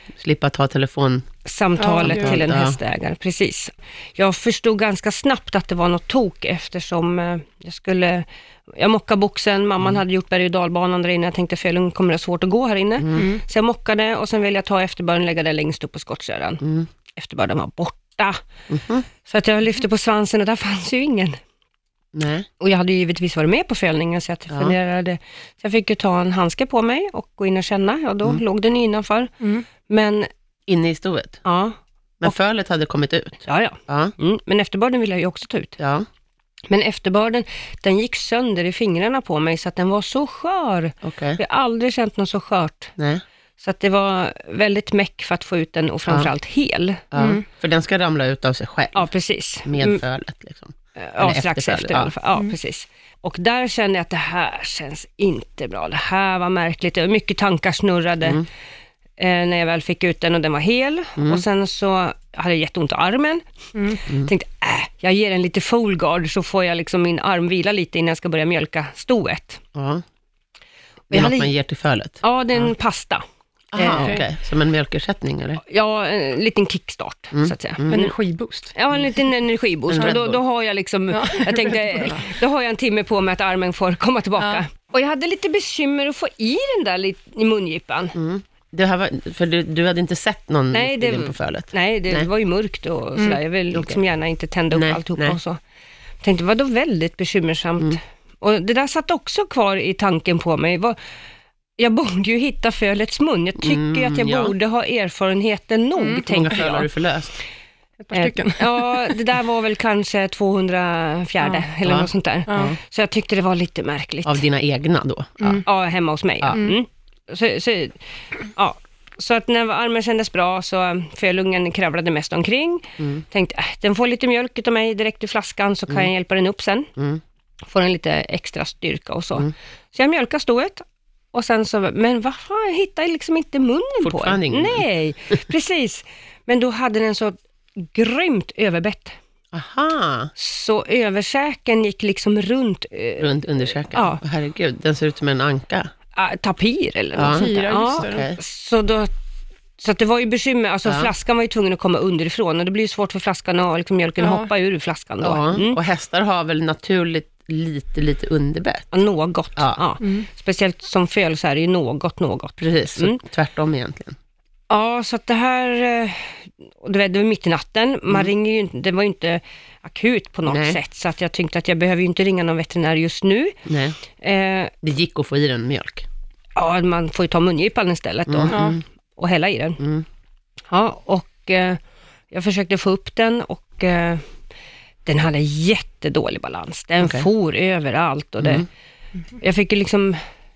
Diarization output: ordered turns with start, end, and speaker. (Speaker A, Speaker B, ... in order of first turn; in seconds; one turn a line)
Speaker A: 0.2-1.3
Speaker B: 1.4-16.6
Speaker C: 1.8-2.4
Speaker A: 2.0-2.8
Speaker A: 13.0-13.3
Speaker C: 13.2-13.4
Speaker A: 16.6-16.9
Speaker B: 17.2-18.4
Speaker A: 18.7-19.1
Speaker B: 19.2-21.4
Speaker A: 22.1-22.5
Speaker B: 22.6-30.3
Speaker A: 30.7-31.4
Speaker B: 31.4-32.3
Speaker A: 32.2-34.1
Speaker B: 33.5-35.8
Speaker A: 35.8-36.1
Speaker B: 36.7-43.0
Speaker A: 41.0-41.4
Speaker A: 43.0-43.2
Speaker B: 43.6-47.0
Speaker A: 47.1-49.1
Speaker C: 47.2-47.4
Speaker B: 48.9-50.0
Speaker A: 49.6-52.1
Speaker B: 51.0-58.4
Speaker B: 59.2-69.6
Speaker A: 61.2-61.4
Speaker A: 69.8-70.0
Speaker A: 71.1-72.7
Speaker B: 71.1-71.5
Speaker B: 72.2-73.2
Speaker A: 73.7-75.6
Speaker B: 73.8-74.2
Speaker C: 73.9-74.2
Speaker B: 75.6-78.1
Speaker A: 77.3-78.0
Speaker C: 77.9-78.7
Speaker B: 78.7-88.2
Speaker A: 79.9-80.4
Speaker C: 81.1-82.2
Speaker C: 84.4-84.6
Speaker A: 88.2-92.3
Speaker B: 90.7-95.6
Speaker A: 93.7-94.0
Speaker A: 94.7-95.4
Speaker B: 96.2-101.0
Speaker B: 101.8-106.9
Speaker A: 103.6-104.5
Speaker C: 106.0-106.2
Speaker A: 106.3-107.3
Speaker C: 108.0-109.1
Speaker B: 108.1-114.4
Speaker A: 111.8-112.8
Speaker C: 112.5-112.7
Speaker A: 114.2-115.6
Speaker B: 115.6-118.0
Speaker B: 118.5-126.9
Speaker A: 123.0-123.2
Speaker A: 127.0-127.2
Speaker B: 127.7-139.2
Speaker A: 134.0-134.8
Speaker A: 139.5-140.3
Speaker B: 140.4-143.3
Speaker A: 143.2-145.9
Speaker B: 143.9-144.2
Speaker B: 146.2-149.1
Speaker A: 147.2-148.4
Speaker C: 147.3-148.2
Speaker B: 149.8-155.8
Speaker A: 150.8-151.1
Speaker C: 154.2-154.5
Speaker A: 155.2-158.9
Speaker B: 158.9-163.2
Speaker A: 162.6-164.2
Speaker B: 164.7-173.6
Speaker A: 170.5-170.8
Speaker A: 173.7-174.0
Speaker B: 174.2-174.7
Speaker A: 174.8-176.1
Speaker B: 176.6-178.6
Speaker A: 178.3-178.8
Speaker C: 178.5-178.8
Speaker B: 179.2-179.8
Speaker A: 179.8-180.1
Speaker B: 180.7-184.2
Speaker B: 185.1-188.7
Speaker A: 187.0-187.3
Speaker A: 188.4-188.7
Speaker B: 189.4-190.2